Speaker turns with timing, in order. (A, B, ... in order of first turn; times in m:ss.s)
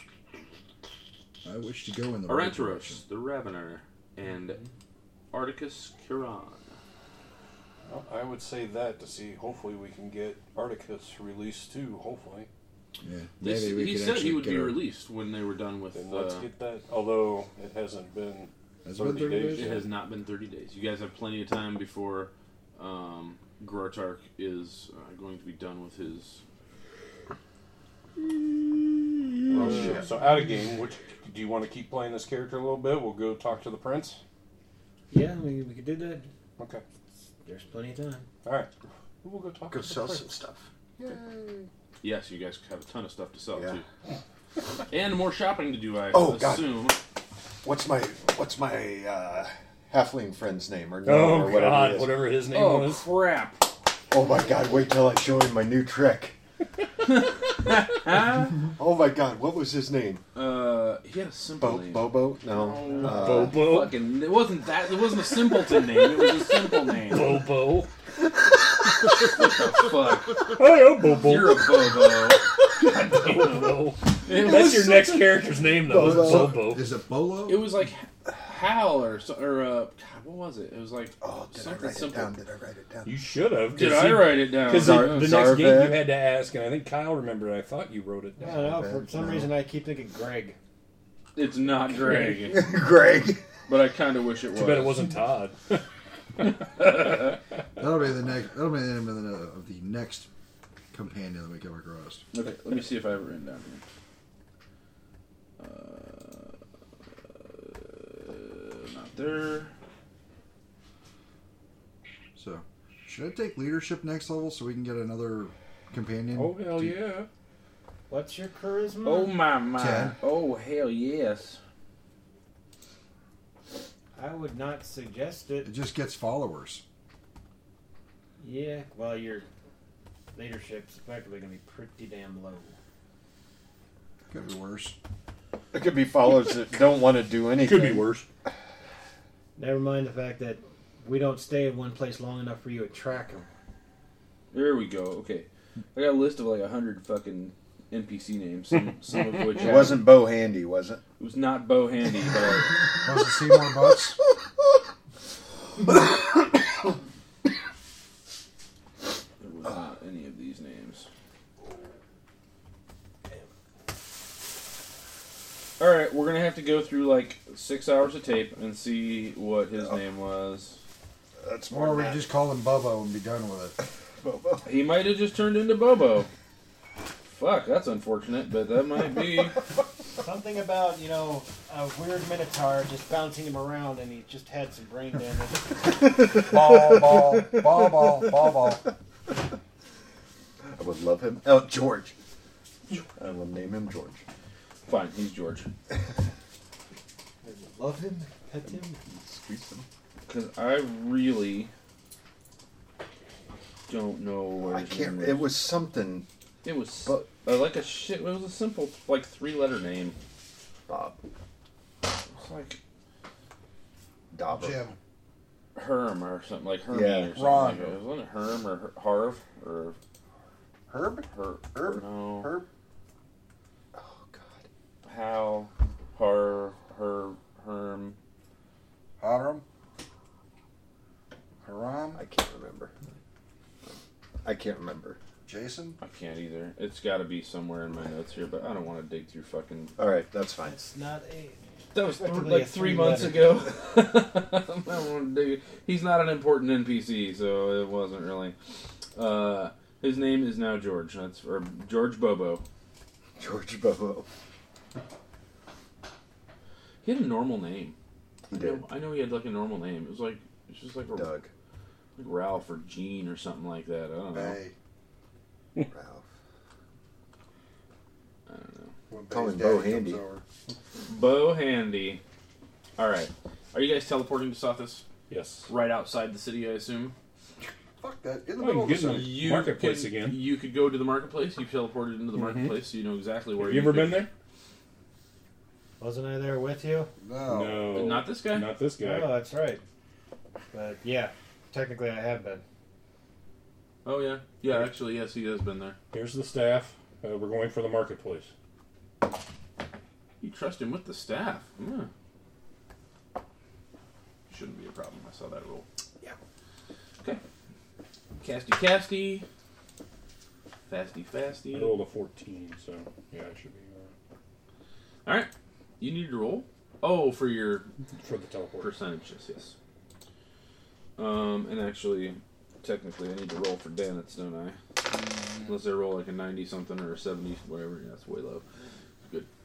0:01.4-0:03.0 A
0:02.3-0:04.6 B
0:05.3-0:06.8 B
0:07.9-0:12.5 C
0:13.0-0:14.9 A
0:13.4-0:16.5 B
0:15.9-0:19.9 C
0:18.8-0:19.8 A
0:19.5-0:26.4 B
0:29.5-0:30.0 B
0:29.5-0:34.2 C
0:29.6-0:30.1 D
0:35.1-0:36.3 E
0:36.6-0:36.8 C
0:37.4-0:38.3 E
0:38.4-0:38.7 C
0:39.2-0:40.3 C
0:39.7-0:41.7 D
0:42.0-0:43.8 B
0:43.5-0:43.8 D
0:44.9-0:47.0 B
0:46.1-0:46.8 D
0:47.6-0:52.2 D
0:51.0-0:53.1 C
0:52.5-0:53.7 B
0:54.1-0:56.4 D
0:57.1-0:58.7 B
0:58.8-1:00.2 D
1:00.3-1:07.4 B
1:01.6-1:03.7 D
1:03.0-1:04.0 C
1:05.7-1:07.9 C
1:09.3-1:12.5 B
1:10.4-1:12.0 C
1:12.8-1:16.9 C
1:13.1-1:13.4 B
1:14.2-1:15.5 B
1:15.9-1:17.8 A
1:15.9-1:16.5 D
1:17.5-1:22.4 B
1:21.2-1:23.2 D
1:23.0-1:28.7 C
1:23.7-1:25.4 B
1:24.6-1:26.1 D
1:28.4-1:30.6 E
1:28.4-1:29.5 D
1:31.4-1:32.7 B
1:32.1-1:32.4 C
1:32.2-1:33.4 D
1:33.7-1:35.1 B
1:34.5-1:35.8 C
1:36.4-1:37.2 C
1:36.8-1:37.2 B
1:37.8-1:40.3 A
1:40.9-1:42.2 A
1:42.3-1:43.8 B
1:45.6-1:46.6 B
1:47.3-1:49.7 B
1:52.4-1:57.0 A
1:56.3-1:57.3 C
1:58.1-1:59.4 E
1:59.0-2:01.6 B
1:59.8-2:00.2 A
2:04.2-2:05.7 E
2:05.6-2:06.8 A
2:08.4-2:09.5 E
2:10.3-2:12.8 E
2:14.3-2:15.0 A
2:15.7-2:18.1 D
2:17.6-2:18.3 C
2:19.6-2:23.5 E
2:24.5-2:30.2 B
2:29.6-2:31.0 D
2:31.2-2:32.9 B
2:33.0-2:34.2 A
2:39.4-2:41.1 B
2:45.8-2:50.8 B
2:51.4-2:52.3 D
2:51.7-2:53.8 A
2:54.2-2:54.6 D
2:54.6-2:56.3 B
2:57.3-2:59.6 B
3:00.2-3:05.9 E
3:06.5-3:08.9 A
3:06.6-3:07.6 D
3:10.7-3:12.1 D
3:12.9-3:14.2 D
3:14.9-3:15.7 B
3:17.4-3:19.0 E
3:19.1-3:19.9 D
3:20.3-3:21.7 B
3:23.9-3:25.6 B
3:24.6-3:26.3 D
3:26.6-3:30.2 B
3:30.9-3:31.2 D
3:32.3-3:32.8 B
3:34.3-3:34.9 D
3:34.5-3:35.0 A
3:35.8-3:40.0 B
3:36.9-3:37.4 D
3:37.3-3:38.0 A
3:40.9-3:42.7 A
3:41.8-3:42.5 B
3:43.9-3:44.7 D
3:45.0-3:48.2 B
3:49.2-3:49.6 A
3:51.6-3:52.2 A
3:52.2-3:52.9 D
3:54.4-3:55.2 D
3:55.5-3:56.0 A
3:56.0-4:00.0 B
4:00.0-4:00.8 D
4:00.6-4:03.7 E
4:01.9-4:08.6 B
4:09.2-4:12.6 B
4:13.4-4:14.3 D
4:17.0-4:18.0 B
4:18.5-4:18.8 D
4:18.5-4:21.3 B
4:21.1-4:21.5 D
4:22.2-4:24.6 B
4:24.3-4:24.7 A
4:25.8-4:26.2 D
4:28.5-4:28.9 B
4:29.1-4:30.4 A
4:29.3-4:30.2 D
4:31.1-4:32.2 B
4:33.0-4:35.0 B
4:35.3-4:35.7 C
4:35.7-4:37.2 B
4:38.0-4:39.4 A
4:38.6-4:40.4 C
4:39.0-4:44.3 B
4:42.3-4:42.8 C
4:43.6-4:44.3 C
4:46.0-4:47.1 E
4:47.2-4:48.0 A
4:47.5-4:49.5 C
4:47.9-4:48.7 B
4:49.0-4:49.8 E
4:50.7-4:52.6 E
4:54.0-4:56.0 B
4:56.1-4:58.5 C
5:00.4-5:02.1 B
5:04.5-5:05.9 B
5:08.4-5:09.4 B
5:10.9-5:12.0 B
5:11.7-5:14.1 C
5:15.2-5:17.9 B
5:18.2-5:18.9 C
5:18.8-5:19.8 B
5:21.2-5:24.8 B
5:25.7-5:28.6 B